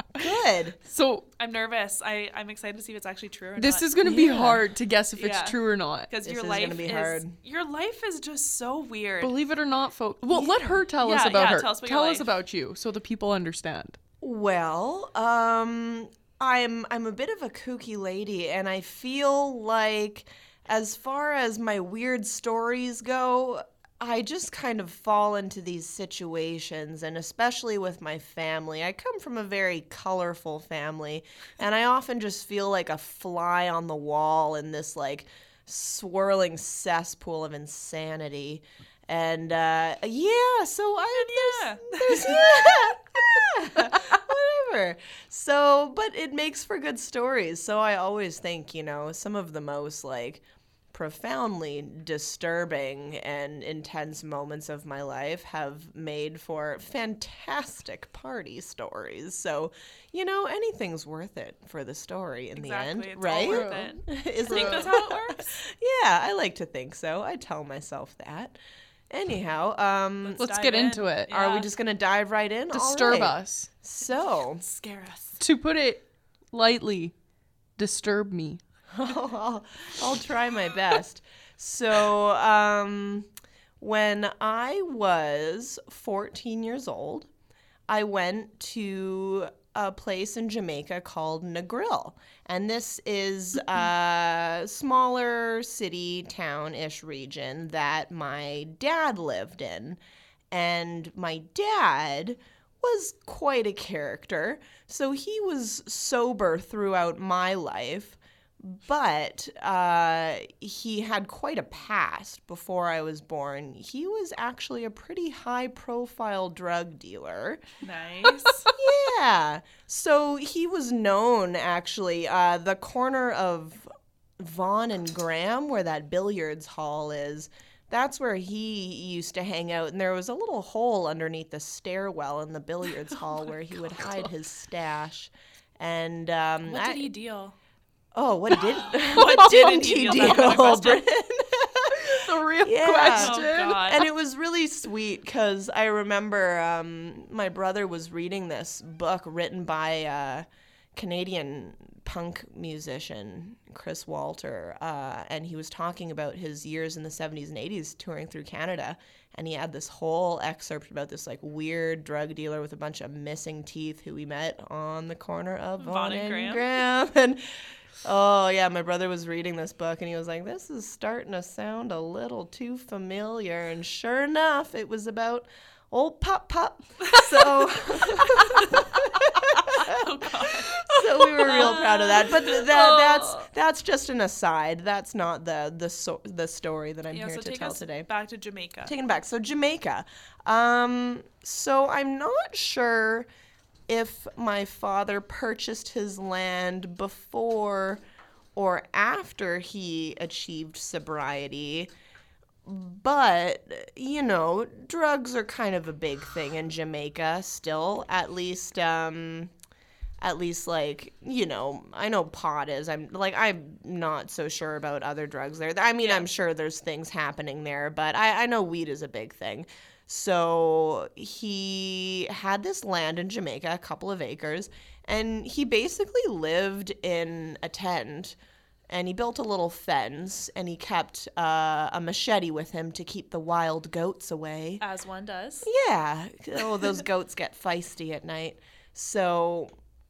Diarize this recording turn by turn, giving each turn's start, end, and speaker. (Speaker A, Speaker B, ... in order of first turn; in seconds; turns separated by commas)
Speaker A: 0.1-0.8, Speaker B: 0.8-1.3, Speaker C: 1.4-3.9, Speaker B: 3.6-6.1, Speaker A: 4.0-4.6, Speaker C: 5.2-5.6, Speaker C: 6.1-9.4, Speaker A: 6.2-7.3, Speaker B: 9.2-14.0, Speaker C: 11.0-12.3, Speaker A: 14.2-68.6, Speaker C: 41.1-42.7, Speaker C: 62.5-65.5, Speaker B: 63.4-64.9, Speaker A: 69.1-70.5, Speaker C: 70.2-71.7, Speaker B: 70.4-71.3, Speaker A: 71.3-74.6, Speaker B: 72.7-73.7, Speaker C: 74.5-75.4, Speaker B: 75.4-77.1, Speaker B: 77.8-78.6, Speaker A: 78.9-83.3, Speaker A: 83.8-87.3, Speaker A: 87.9-100.0, Speaker A: 100.5-117.6, Speaker C: 117.8-118.7, Speaker A: 118.7-137.1, Speaker C: 136.7-137.6, Speaker A: 138.1-167.4, Speaker C: 139.0-141.0, Speaker B: 139.3-140.2, Speaker B: 142.1-144.1, Speaker C: 143.1-144.1, Speaker C: 165.8-166.7, Speaker A: 168.0-180.0, Speaker C: 179.7-183.5, Speaker A: 180.9-188.1, Speaker C: 187.1-188.9, Speaker A: 188.8-193.3, Speaker A: 193.9-198.0, Speaker A: 198.6-201.9, Speaker A: 202.6-209.5, Speaker A: 210.2-228.3, Speaker C: 216.0-216.3, Speaker A: 228.9-234.8, Speaker C: 234.8-235.7, Speaker A: 235.6-239.7